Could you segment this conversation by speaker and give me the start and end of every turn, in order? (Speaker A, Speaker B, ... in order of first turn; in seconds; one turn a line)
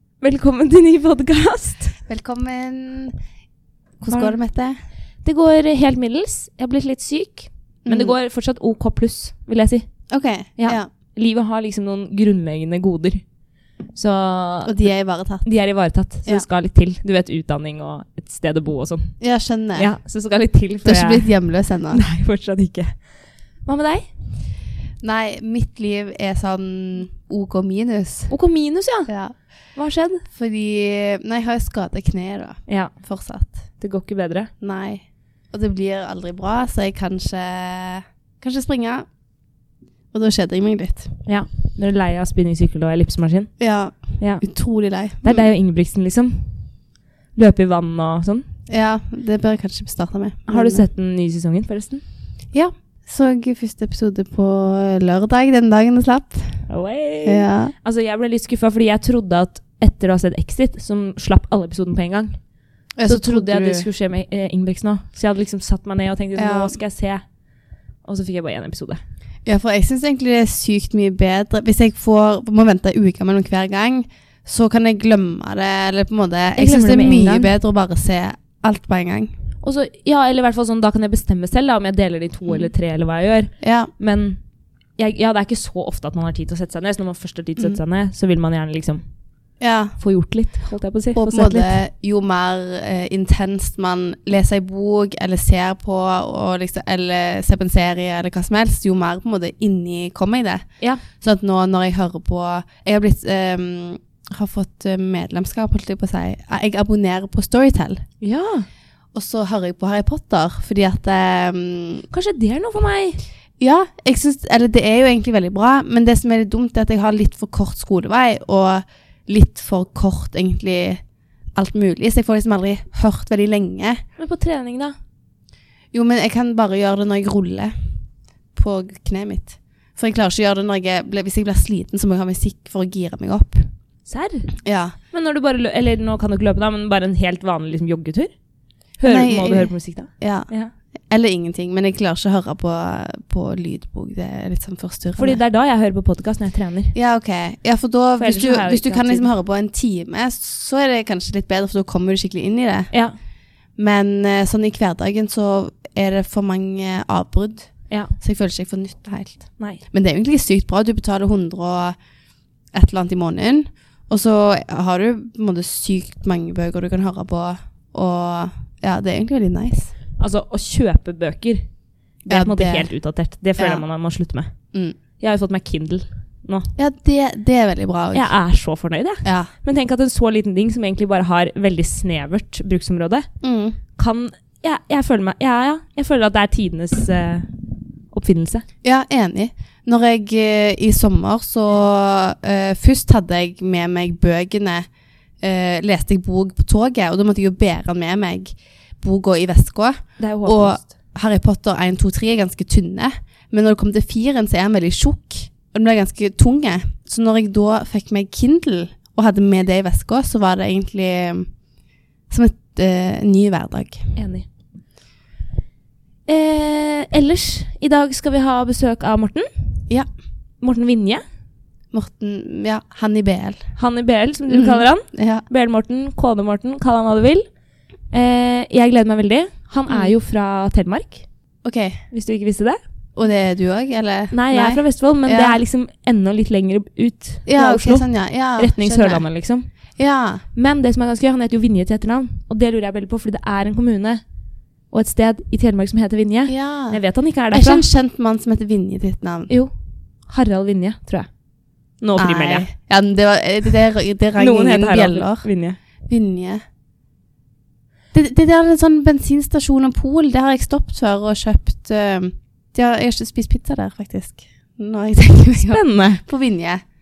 Speaker A: 0.2-1.9
Speaker B: 2.0-3.1
Speaker B: 4.0-4.8
Speaker A: 4.1-4.3
Speaker A: 5.2-9.9
Speaker B: 7.8-8.2
Speaker B: 10.1-10.9
Speaker A: 10.6-13.2
Speaker A: 13.9-14.9
Speaker B: 14.7-15.5
Speaker A: 15.4-19.1
Speaker B: 19.2-19.9
Speaker A: 19.8-21.3
Speaker B: 20.8-22.0
Speaker A: 21.9-22.9
Speaker A: 23.6-24.1
Speaker B: 25.0-28.3
Speaker A: 28.3-29.1
Speaker B: 29.1-29.3
Speaker A: 29.8-30.2
Speaker B: 30.3-33.5
Speaker A: 33.8-34.5
Speaker B: 34.6-39.0
Speaker B: 40.1-41.1
Speaker A: 41.2-43.5
Speaker B: 43.6-45.5
Speaker A: 44.2-44.4
Speaker A: 45.2-46.5
Speaker A: 47.4-48.5
Speaker B: 48.7-50.8
Speaker A: 50.5-52.0
Speaker B: 52.5-56.6
Speaker A: 56.7-62.4
Speaker B: 57.2-57.7
Speaker B: 63.0-63.9
Speaker A: 63.1-67.2
Speaker B: 66.3-66.7
Speaker A: 68.0-69.0
Speaker B: 69.5-79.3
Speaker A: 76.6-77.5
Speaker A: 79.6-84.4
Speaker B: 83.6-83.9
Speaker A: 85.0-89.0
Speaker B: 89.6-90.0
Speaker A: 90.0-91.7
Speaker B: 91.1-108.0
Speaker A: 108.2-108.7
Speaker B: 109.1-112.0
Speaker A: 112.1-113.2
Speaker B: 113.6-121.0
Speaker B: 121.5-124.0
Speaker A: 124.2-125.0
Speaker B: 125.9-127.7
Speaker B: 128.6-133.7
Speaker A: 134.1-134.5
Speaker B: 134.6-134.9
Speaker A: 135.1-138.3
Speaker A: 139.0-140.7
Speaker B: 139.1-140.5
Speaker B: 141.1-145.4
Speaker A: 145.2-146.9
Speaker B: 146.9-152.9
Speaker A: 148.2-149.3
Speaker B: 153.8-161.9
Speaker B: 162.7-169.9
Speaker A: 170.2-171.7
Speaker A: 172.2-174.5
Speaker B: 172.3-172.9
Speaker B: 173.6-173.8
Speaker A: 175.2-176.7
Speaker B: 176.8-178.3
Speaker A: 178.1-183.3
Speaker B: 179.2-179.5
Speaker B: 183.4-183.8
Speaker A: 183.9-187.5
Speaker A: 188.1-188.7
Speaker B: 188.8-194.9
Speaker B: 195.4-211.5
Speaker A: 200.2-200.9
Speaker B: 212.3-214.1
Speaker A: 214.1-214.4
Speaker A: 216.3-219.5
Speaker A: 220.6-221.2
Speaker B: 221.9-223.7
Speaker A: 223.8-227.4
Speaker B: 224.5-225.4
Speaker A: 228.1-231.2
Speaker B: 229.9-230.2
Speaker B: 231.6-232.0
Speaker A: 232.1-232.8
Speaker B: 233.2-235.6
Speaker A: 234.3-238.1
Speaker B: 237.5-239.2
Speaker A: 238.6-239.7
Speaker B: 240.0-240.4
Speaker A: 240.5-244.2
Speaker A: 244.9-247.8
Speaker B: 246.5-249.5
Speaker A: 250.3-251.3
Speaker A: 252.0-252.7
Speaker B: 252.2-255.5
Speaker A: 254.4-255.8
Speaker B: 256.1-256.6
Speaker B: 258.1-266.8
Speaker A: 265.6-266.2